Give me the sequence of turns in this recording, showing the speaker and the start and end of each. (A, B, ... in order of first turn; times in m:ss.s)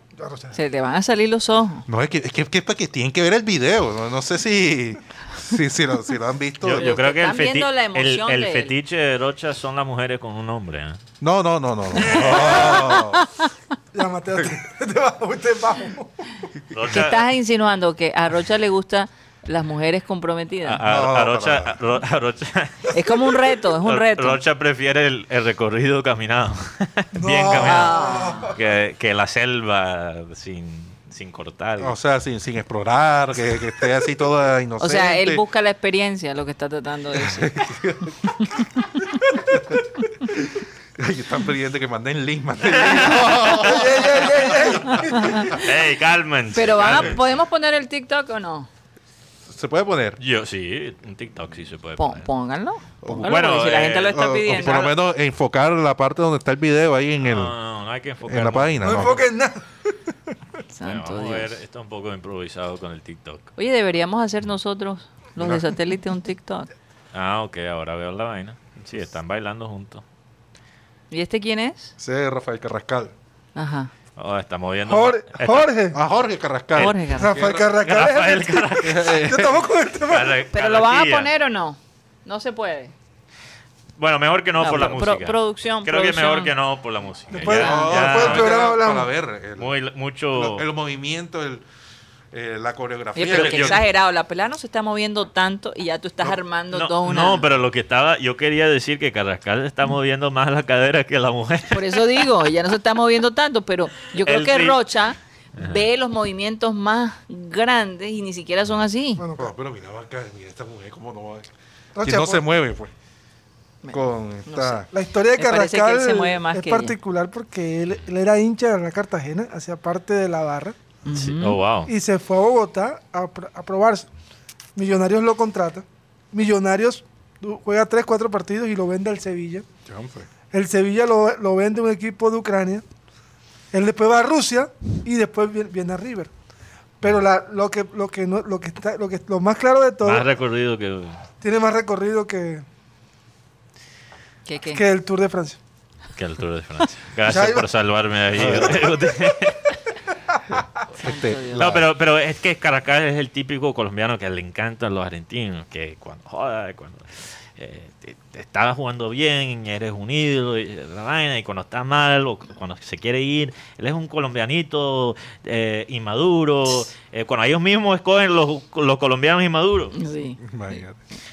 0:00.2-0:00.6 A
0:00.5-0:01.9 B
0:01.9-0:07.0 C
0:06.6-0:11.0 D
0:06.7-0:08.8 B
0:11.2-0:13.3 C
0:12.0-0:12.8 D
0:12.0-0:13.5 B
0:13.9-0:16.4 A
0:16.7-0:17.3 D
0:16.9-0:20.8 B
0:20.6-0:31.9 D
0:20.8-0:21.8 C
0:22.9-0:24.4 B
0:27.1-0:28.6 A
0:27.6-0:28.6 B
0:31.8-0:35.4 C
0:34.8-0:37.5 B
0:37.2-0:38.5 C
0:39.5-0:39.8 C
0:40.3-0:45.6 C
0:42.8-0:43.7 D
0:43.6-0:45.5 A
0:44.9-0:45.6 B
0:45.5-0:47.2 D
0:46.5-0:48.7 B
0:46.8-0:47.2 C
0:49.5-0:50.2 C
0:50.2-0:52.3 D
0:52.0-0:54.9 B
0:53.0-0:57.6 C
0:53.2-0:54.9 D
0:57.2-0:59.1 D
0:58.2-0:59.2 C
0:58.8-0:59.7 A
1:00.7-1:01.6 B
1:00.8-1:03.5 D
1:03.6-1:06.7 B
1:05.4-1:05.7 C
1:07.1-1:10.0 D
1:11.1-1:11.9 B
1:12.0-1:13.1 C
1:13.6-1:13.9 B
1:14.2-1:15.7 D
1:14.9-1:16.0 A
1:15.9-1:17.9 C
1:16.7-1:17.0 D
1:16.8-1:17.4 B
1:17.2-1:20.3 A
1:17.8-1:19.2 D
1:18.8-1:19.7 C
1:20.0-1:21.3 D
1:20.5-1:22.9 B
1:24.0-1:28.7 D
1:24.6-1:26.5 B
1:27.3-1:29.1 A
1:27.4-1:29.8 C
1:29.6-1:30.7 D
1:30.3-1:31.6 C
1:32.3-1:33.8 C
1:33.2-1:37.5 B
1:33.3-1:33.8 D
1:36.7-1:42.3 D
1:41.7-1:49.2 B
1:44.2-1:44.8 D
1:45.6-1:45.8 D
1:49.2-1:49.5 A
1:49.4-1:51.5 C
1:52.0-1:52.5 A
1:52.0-1:52.9 C
1:53.8-1:54.8 B
1:53.9-1:54.9 C
1:54.9-2:00.8 A
1:55.4-1:57.0 B
2:01.1-2:01.6 B
2:01.1-2:01.9 D
2:01.9-2:04.1 A
2:04.8-2:09.7 A
2:09.9-2:10.3 C
2:10.5-2:12.8 A
2:13.7-2:16.3 A
2:17.0-2:20.3 A
2:20.0-2:21.2 D
2:21.4-2:22.6 A
2:24.5-2:24.8 B
2:24.7-2:25.6 A
2:26.2-2:29.8 D
2:27.3-2:27.7 A
2:28.3-2:29.0 C
2:31.0-2:31.7 B
2:31.0-2:31.9 C
2:31.6-2:50.0 D
2:49.9-2:50.8 B
2:50.4-2:51.0 C